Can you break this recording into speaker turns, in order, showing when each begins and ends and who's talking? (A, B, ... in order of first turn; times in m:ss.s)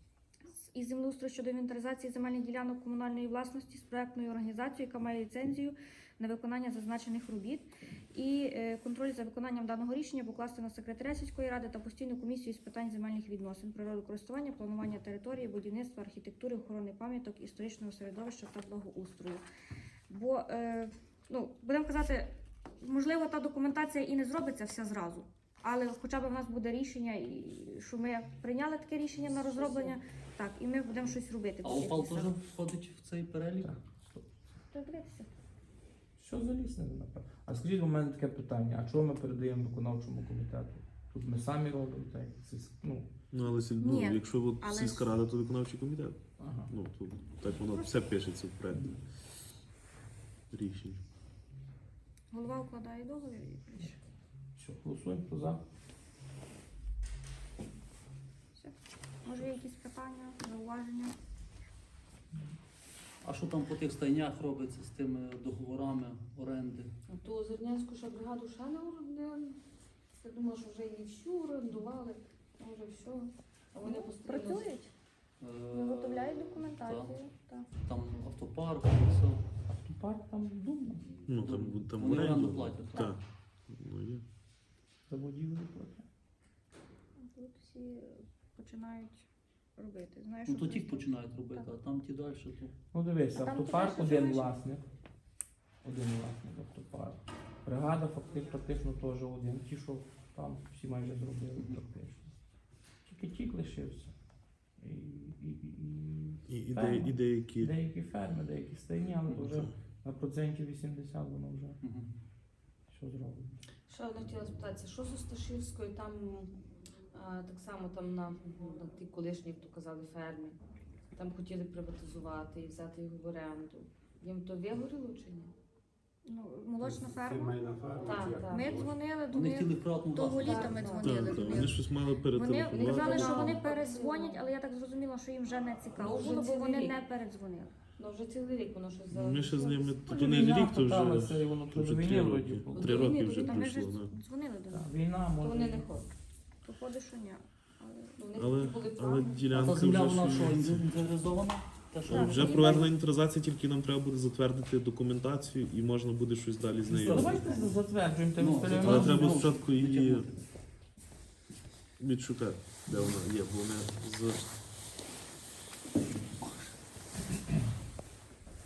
0:00.5-0:19.4 A
0:20.1-0:32.3 A
0:29.3-0:30.0 B
0:31.6-0:33.8 C
0:33.6-0:34.3 D
0:34.7-0:35.3 A
0:36.2-0:43.1 D
0:43.3-0:49.0 E
0:43.8-0:45.1 A
0:46.4-0:46.7 D
0:47.6-0:47.9 A
0:50.5-0:51.0 E
0:52.3-0:54.0 A
0:54.6-0:55.6 D
0:58.6-1:01.1 A
1:03.2-1:06.9 C
1:07.1-1:09.6 B
1:10.2-1:14.7 B
1:13.8-1:14.9 A
1:15.4-1:17.2 C
1:15.7-1:17.7 A
1:17.8-1:19.4 C
1:19.7-1:21.1 D
1:21.3-1:24.2 E
1:21.3-1:23.1 C
1:25.1-1:26.1 D
1:27.2-1:31.7 A
1:30.5-1:32.7 C
1:32.9-1:34.8 D
1:33.4-1:34.5 A
1:35.8-1:42.3 D
1:43.1-1:44.1 D
1:44.8-1:51.8 D
1:46.5-1:47.7 E
1:49.3-1:49.7 E
1:51.8-1:52.1 C
1:52.9-1:53.6 D
1:53.9-1:56.5 B
1:57.1-2:00.6 B
2:01.2-2:05.5 B
2:06.3-2:07.8 A
2:07.8-2:08.8 B
2:08.5-2:17.8 A
2:09.3-2:11.0 C
2:10.4-2:11.6 B
2:11.0-2:13.7 E
2:12.8-2:14.4 B
2:16.0-2:17.0 B
2:18.0-2:20.0 B
2:19.1-2:24.1 E
2:20.1-2:23.0 D
2:22.7-2:23.6 B
2:22.8-2:24.9 A
2:24.7-2:25.9 D
2:25.4-2:26.1 B
2:26.6-2:28.3 A
2:28.2-2:29.8 B
2:28.3-2:31.1 E
2:29.6-2:32.9 C
2:32.1-2:37.6 E
2:32.1-2:32.8 A
2:32.5-2:32.8 B
2:36.9-2:39.5 D
2:38.4-2:40.3 C
2:38.7-2:40.3 E
2:42.0-2:44.5 E